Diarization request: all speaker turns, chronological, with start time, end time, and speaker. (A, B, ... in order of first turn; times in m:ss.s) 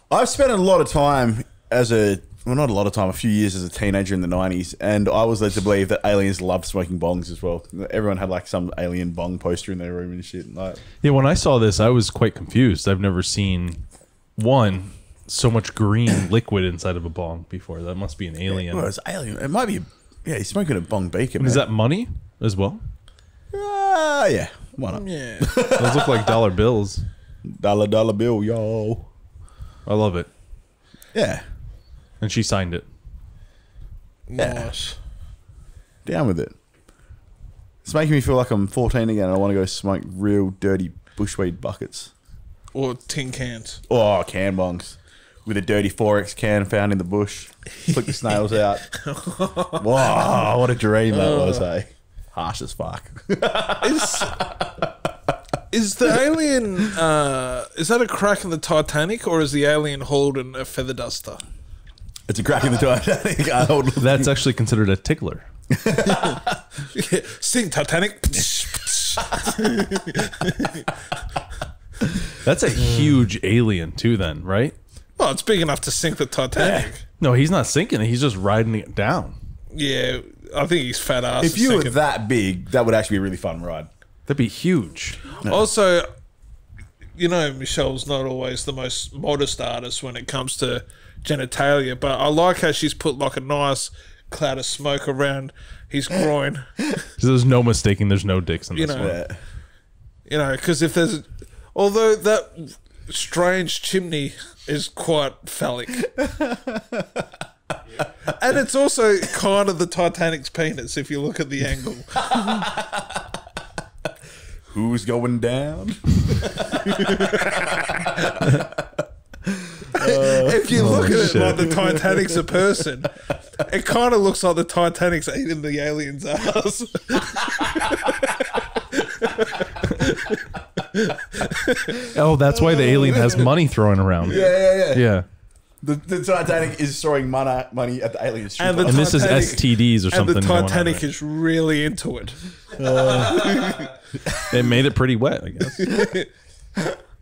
0:00.1-0:10.8 A
0:11.0-0:13.8 B
0:14.4-0:18.9 B
0:18.5-0:21.7 A
0:21.4-0:22.8 B
0:23.5-0:26.3 A
0:24.9-0:25.6 C
0:25.7-0:27.0 B
0:27.4-0:29.1 A
0:29.8-0:30.3 B
0:31.1-0:31.4 A
0:32.2-0:32.8 B
0:34.3-0:35.0 C
0:34.4-0:34.7 A
0:36.0-0:36.5 A
0:37.8-0:42.1 A
0:42.7-0:43.8 C
0:43.9-0:48.8 A
0:47.8-0:50.4 C
0:49.8-0:54.9 A
0:51.1-0:51.7 C
0:53.8-0:54.4 C
0:55.7-1:01.4 C
1:02.3-1:04.3 A
1:04.0-1:05.5 B
1:05.7-1:06.6 A
1:06.1-1:06.4 C
1:06.9-1:10.9 C
1:12.4-1:14.8 B
1:15.2-1:17.0 C
1:16.5-1:16.9 A
1:17.2-1:19.3 B
1:19.7-1:22.0 C
1:21.4-1:23.9 A
1:24.3-1:25.2 B
1:25.4-1:25.7 A
1:25.4-1:26.1 C
1:27.2-1:36.7 C
1:37.2-1:39.2 B
1:38.7-1:39.2 C
1:38.9-1:39.4 A
1:40.3-1:46.1 C
1:46.0-1:47.3 A
1:48.3-1:52.7 C
1:52.3-1:53.3 A
1:54.7-2:02.8 A
1:56.9-1:58.3 C
1:59.9-2:12.0 C
2:00.7-2:01.8 B
2:12.1-2:15.3 B
2:12.4-2:13.5 A
2:14.2-2:15.1 A
2:15.8-2:19.5 A
2:18.6-2:22.4 C
2:18.8-2:21.0 B
2:22.7-2:23.7 A
2:23.1-2:23.9 C
2:24.2-2:24.7 A
2:24.4-2:25.9 B
2:25.8-2:26.3 C